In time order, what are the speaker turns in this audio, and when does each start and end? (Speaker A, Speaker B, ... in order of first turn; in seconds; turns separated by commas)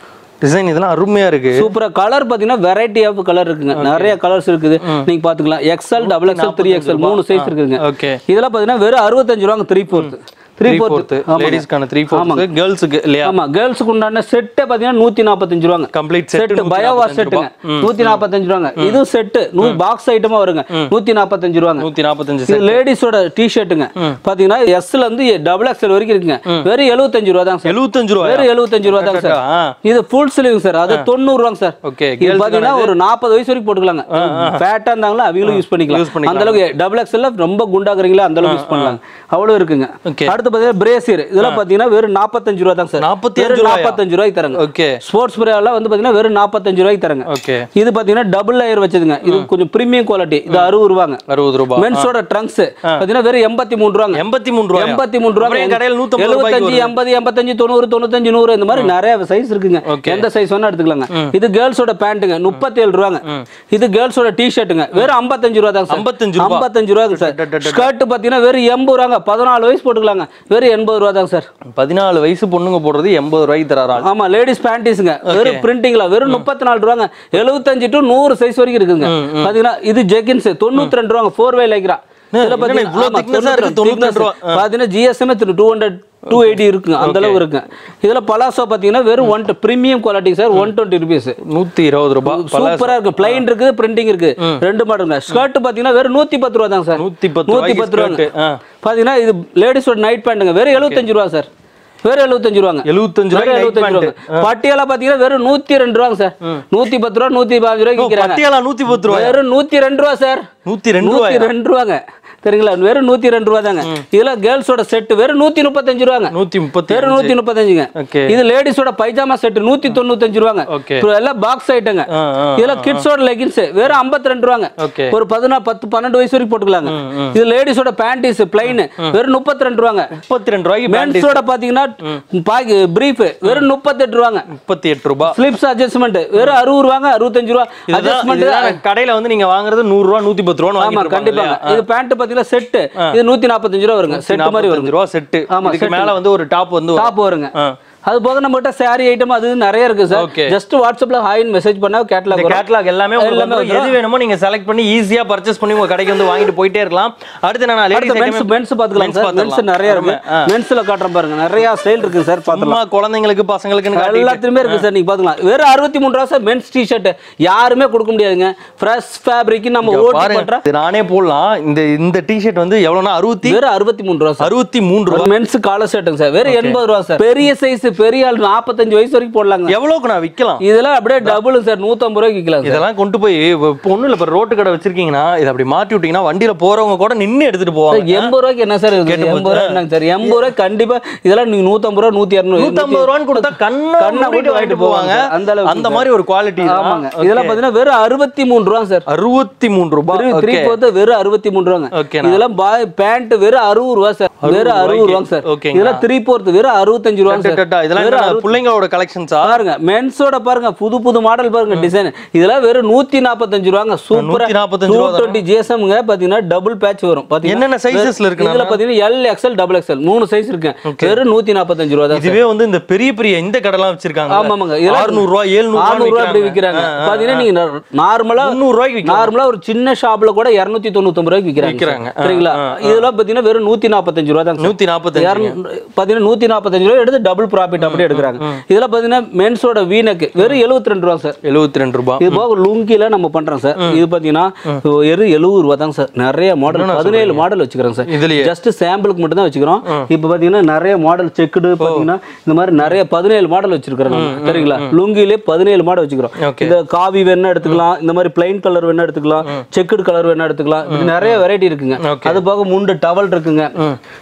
Speaker A: 0.4-1.7, Speaker B: 1.5-12.4, Speaker A: 3.7-4.2, Speaker A: 6.0-8.2, Speaker A: 10.7-13.3, Speaker B: 13.2-21.9, Speaker A: 15.9-18.2, Speaker A: 21.8-22.8, Speaker B: 22.5-51.2, Speaker A: 27.6-29.8, Speaker A: 31.8-33.0, Speaker A: 34.1-34.6, Speaker A: 35.4-36.6, Speaker A: 38.4-39.0, Speaker A: 40.0-40.4, Speaker A: 43.0-44.0, Speaker A: 44.5-45.0, Speaker A: 47.3-47.7, Speaker A: 51.3-52.1, Speaker B: 51.8-54.2, Speaker A: 54.1-57.0, Speaker B: 54.7-71.5, Speaker A: 59.9-60.3, Speaker A: 65.9-67.9, Speaker A: 71.8-74.1, Speaker B: 74.0-91.4, Speaker A: 75.3-75.6, Speaker A: 79.0-79.5, Speaker A: 82.3-84.6, Speaker A: 86.3-87.4, Speaker A: 91.4-93.4, Speaker B: 92.2-98.2, Speaker A: 97.0-98.6, Speaker B: 98.8-101.5, Speaker A: 100.7-101.0, Speaker B: 102.0-108.4, Speaker A: 102.8-104.5, Speaker A: 108.0-109.4, Speaker B: 109.0-110.5, Speaker A: 110.7-111.5, Speaker B: 111.0-116.3, Speaker A: 116.3-117.4, Speaker B: 116.9-130.1, Speaker A: 118.0-118.4, Speaker A: 120.7-121.1, Speaker A: 122.1-123.0, Speaker A: 124.8-125.1, Speaker A: 126.9-127.4, Speaker A: 128.6-129.1, Speaker A: 130.1-131.4, Speaker B: 130.9-134.5, Speaker A: 134.5-135.4, Speaker B: 135.3-138.8, Speaker A: 137.9-141.8, Speaker B: 140.8-144.9, Speaker A: 144.1-147.7, Speaker B: 145.5-146.2, Speaker B: 146.9-147.5, Speaker B: 148.1-152.6, Speaker A: 150.1-150.6, Speaker A: 152.3-160.4, Speaker B: 153.2-154.0, Speaker B: 157.9-162.8, Speaker A: 162.5-164.8, Speaker B: 163.9-170.6, Speaker A: 169.8-173.6, Speaker B: 173.4-174.5, Speaker A: 174.4-175.3, Speaker B: 175.1-179.7, Speaker A: 176.4-176.8, Speaker A: 179.7-180.6, Speaker B: 180.6-182.8, Speaker A: 182.7-188.3, Speaker B: 187.9-196.1, Speaker A: 189.1-190.4, Speaker A: 192.6-197.6, Speaker B: 196.6-199.1, Speaker A: 199.1-200.8, Speaker B: 200.1-208.5, Speaker A: 201.9-202.4, Speaker A: 204.4-206.0, Speaker A: 207.3-209.6, Speaker B: 209.4-222.4, Speaker A: 214.1-215.4, Speaker A: 217.4-218.8, Speaker A: 220.9-221.2, Speaker A: 222.1-227.5, Speaker B: 224.3-241.4, Speaker A: 228.4-229.3, Speaker A: 231.6-233.1, Speaker A: 234.6-235.5, Speaker A: 237.8-238.6, Speaker A: 241.4-242.4, Speaker B: 242.2-263.7, Speaker A: 243.8-244.0, Speaker A: 246.7-247.4, Speaker A: 248.1-248.5, Speaker A: 251.8-252.1, Speaker A: 254.1-254.9, Speaker A: 256.4-256.8, Speaker A: 260.9-261.4, Speaker A: 262.0-262.4